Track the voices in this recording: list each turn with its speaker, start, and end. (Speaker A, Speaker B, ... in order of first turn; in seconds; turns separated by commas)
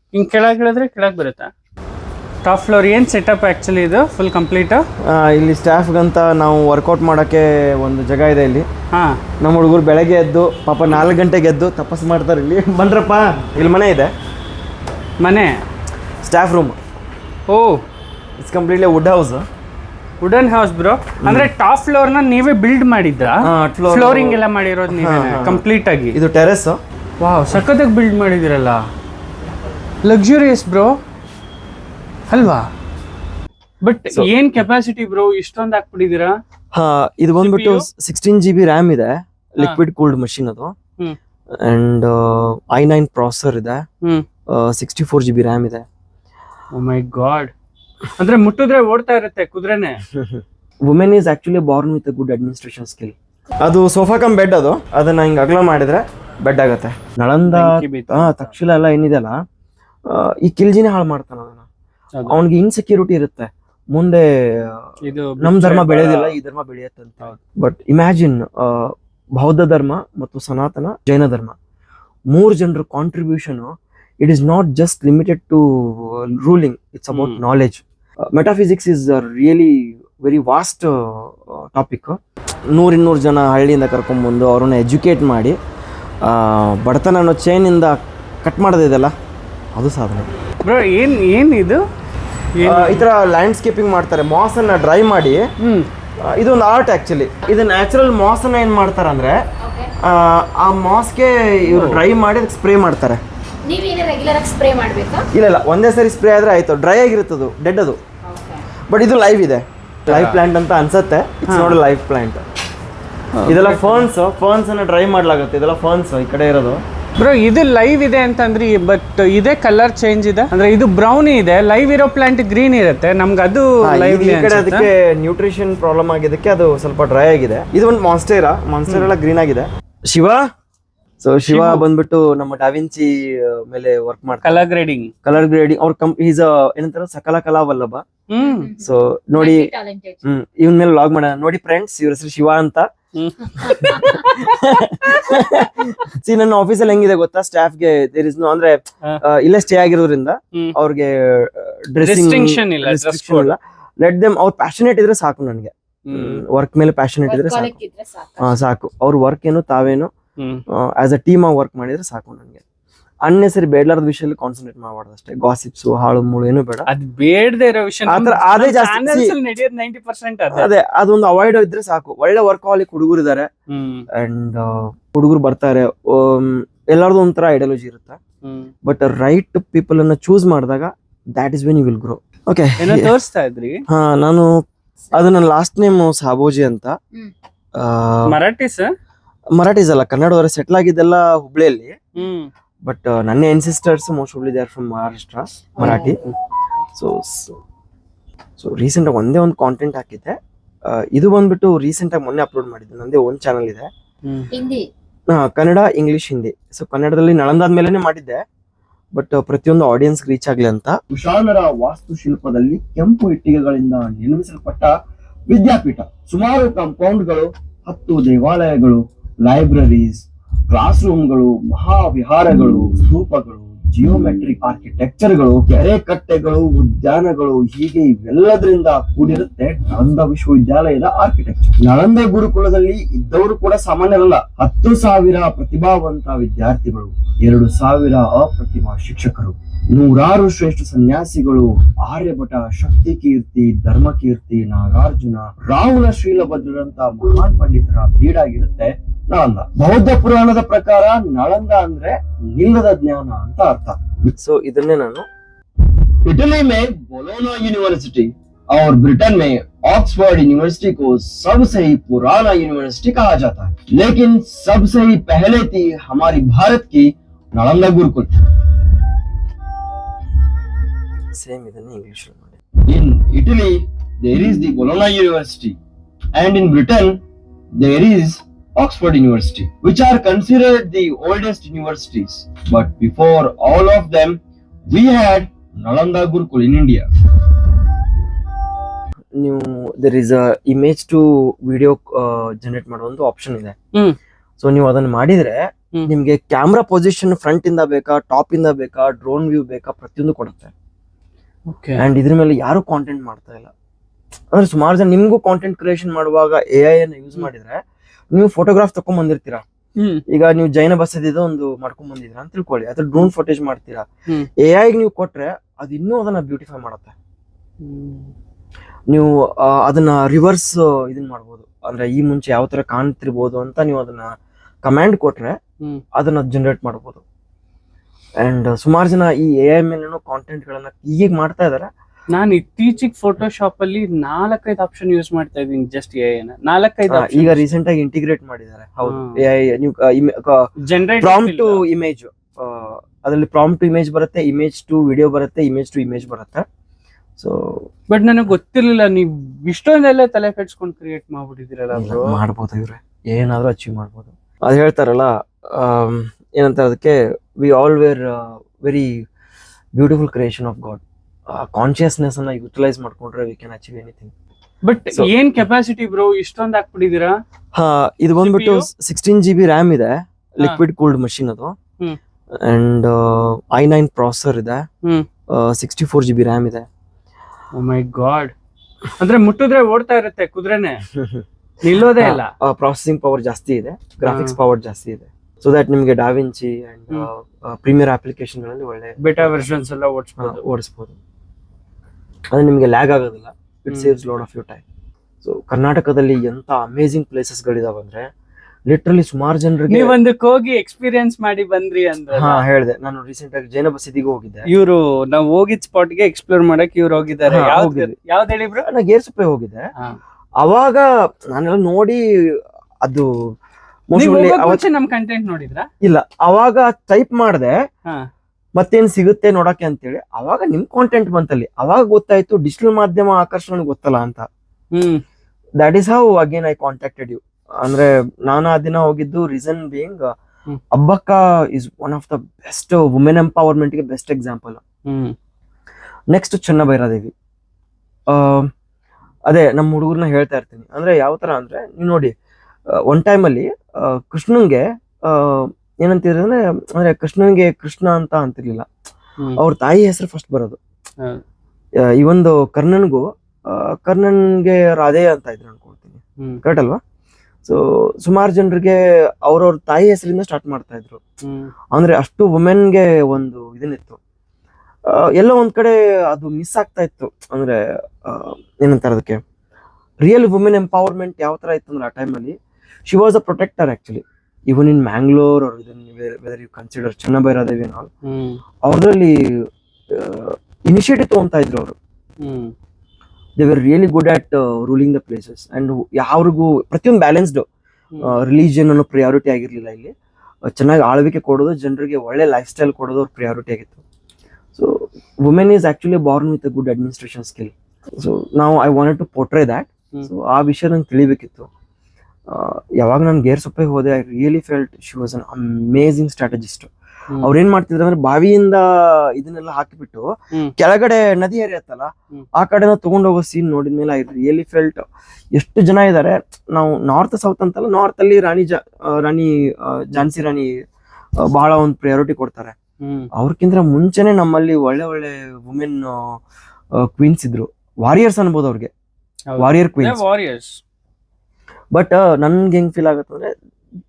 Speaker A: 0.1-1.5, Speaker A: 2.4-4.8, Speaker B: 5.0-8.7, Speaker B: 9.4-14.1, Speaker A: 15.2-15.5, Speaker B: 16.2-16.8, Speaker A: 17.5-17.8, Speaker B: 18.4-19.4, Speaker A: 20.2-26.2, Speaker B: 21.2-21.5, Speaker B: 23.4-26.8, Speaker A: 27.2-28.8, Speaker A: 30.1-30.9, Speaker A: 32.3-32.7, Speaker A: 33.8-36.3, Speaker B: 36.7-40.7, Speaker A: 37.4-37.9, Speaker B: 41.5-43.8, Speaker B: 44.5-45.8, Speaker A: 46.7-47.5, Speaker A: 48.2-50.0, Speaker B: 50.1-59.4, Speaker A: 57.5-58.5, Speaker B: 60.1-61.7, Speaker B: 62.3-64.9, Speaker A: 65.0-66.4, Speaker B: 65.4-71.5, Speaker B: 72.3-82.2, Speaker A: 77.1-77.4, Speaker B: 82.7-85.6, Speaker B: 86.2-89.1, Speaker B: 89.8-90.3, Speaker A: 90.6-91.8, Speaker A: 92.6-93.0, Speaker B: 92.6-95.5, Speaker A: 95.6-95.9, Speaker B: 96.2-99.4, Speaker C: 99.6-99.9, Speaker B: 100.0-103.2, Speaker A: 101.7-102.0, Speaker C: 103.6-105.3, Speaker B: 105.3-108.0, Speaker C: 108.2-108.6, Speaker B: 108.9-112.4, Speaker A: 110.0-110.4, Speaker A: 111.5-111.8, Speaker A: 113.3-114.1, Speaker B: 113.5-116.8, Speaker A: 117.2-124.9, Speaker B: 123.8-130.5, Speaker B: 131.2-134.7, Speaker A: 131.5-131.8, Speaker A: 134.4-135.1, Speaker B: 135.2-138.0, Speaker A: 138.3-138.7, Speaker C: 138.4-140.2, Speaker B: 138.8-139.7, Speaker B: 140.2-142.9, Speaker A: 143.2-145.3, Speaker B: 143.6-157.8, Speaker C: 143.8-144.1, Speaker A: 152.0-153.5, Speaker A: 156.1-156.4, Speaker C: 157.2-158.6, Speaker B: 158.4-160.1, Speaker B: 160.7-162.6, Speaker B: 163.2-166.9, Speaker A: 166.9-170.7, Speaker B: 168.1-169.3, Speaker B: 170.5-173.5, Speaker A: 173.7-174.1, Speaker B: 174.1-178.2, Speaker A: 178.4-178.7, Speaker B: 178.8-183.1, Speaker A: 182.8-183.8, Speaker B: 183.9-184.6, Speaker B: 185.1-187.0, Speaker B: 187.8-188.3, Speaker A: 188.3-188.9, Speaker B: 189.5-192.0, Speaker A: 192.2-192.5, Speaker B: 192.8-196.2, Speaker C: 195.8-196.2, Speaker A: 195.8-196.3, Speaker B: 196.9-197.6, Speaker B: 198.6-203.9, Speaker C: 204.5-204.8, Speaker B: 205.3-208.4, Speaker B: 209.1-214.9, Speaker B: 215.5-255.3, Speaker B: 256.2-268.3, Speaker B: 271.3-275.8, Speaker B: 276.4-277.2, Speaker B: 277.8-284.4, Speaker B: 284.9-287.1, Speaker B: 289.4-293.8, Speaker B: 294.6-300.7, Speaker A: 301.7-302.0, Speaker B: 302.0-303.7, Speaker B: 304.5-309.6, Speaker A: 310.0-310.2, Speaker B: 310.3-314.1, Speaker B: 314.6-317.1, Speaker A: 317.8-318.3, Speaker B: 319.1-325.6, Speaker B: 326.1-327.2, Speaker B: 328.4-331.9, Speaker A: 332.3-337.7, Speaker B: 337.1-340.7, Speaker A: 339.0-339.4, Speaker A: 340.8-341.8, Speaker B: 341.2-346.6, Speaker B: 347.4-347.9, Speaker A: 348.1-352.4, Speaker B: 351.9-359.2, Speaker B: 360.0-364.3, Speaker A: 364.8-367.4, Speaker B: 367.7-371.8, Speaker A: 368.4-368.9, Speaker B: 372.6-374.9, Speaker B: 375.5-376.9, Speaker A: 377.7-378.5, Speaker A: 379.2-381.0, Speaker B: 381.1-381.4, Speaker A: 381.8-382.5, Speaker B: 382.2-389.5, Speaker A: 384.3-384.6, Speaker A: 389.2-390.6, Speaker B: 390.4-391.2, Speaker B: 392.5-394.8, Speaker B: 395.4-398.3, Speaker B: 398.9-400.2, Speaker A: 399.9-402.6, Speaker B: 402.3-404.7, Speaker A: 404.7-408.9, Speaker B: 407.5-408.2, Speaker B: 408.8-409.9, Speaker B: 410.6-413.3, Speaker B: 414.1-414.8, Speaker A: 414.1-415.9, Speaker B: 416.0-417.8, Speaker B: 418.8-424.5, Speaker A: 424.9-425.2, Speaker B: 425.8-430.3, Speaker B: 430.9-434.8, Speaker A: 435.1-435.4, Speaker B: 436.3-437.3, Speaker B: 438.3-438.7, Speaker B: 439.5-442.3, Speaker B: 442.9-448.9, Speaker B: 449.6-450.8, Speaker B: 452.0-457.0, Speaker B: 457.6-461.2, Speaker A: 461.4-461.7, Speaker B: 461.9-464.2, Speaker B: 465.1-469.4, Speaker B: 470.2-472.6, Speaker B: 473.1-478.1, Speaker A: 478.2-478.6, Speaker B: 478.8-482.0, Speaker A: 482.4-482.7, Speaker B: 483.6-487.7, Speaker B: 488.2-490.1, Speaker B: 490.7-494.0, Speaker B: 494.8-501.7, Speaker B: 502.5-515.0, Speaker B: 515.5-520.7, Speaker B: 521.4-522.8, Speaker A: 523.0-523.3, Speaker B: 523.3-526.4, Speaker B: 527.0-528.9, Speaker A: 529.5-530.8, Speaker B: 529.6-530.2, Speaker B: 531.9-533.5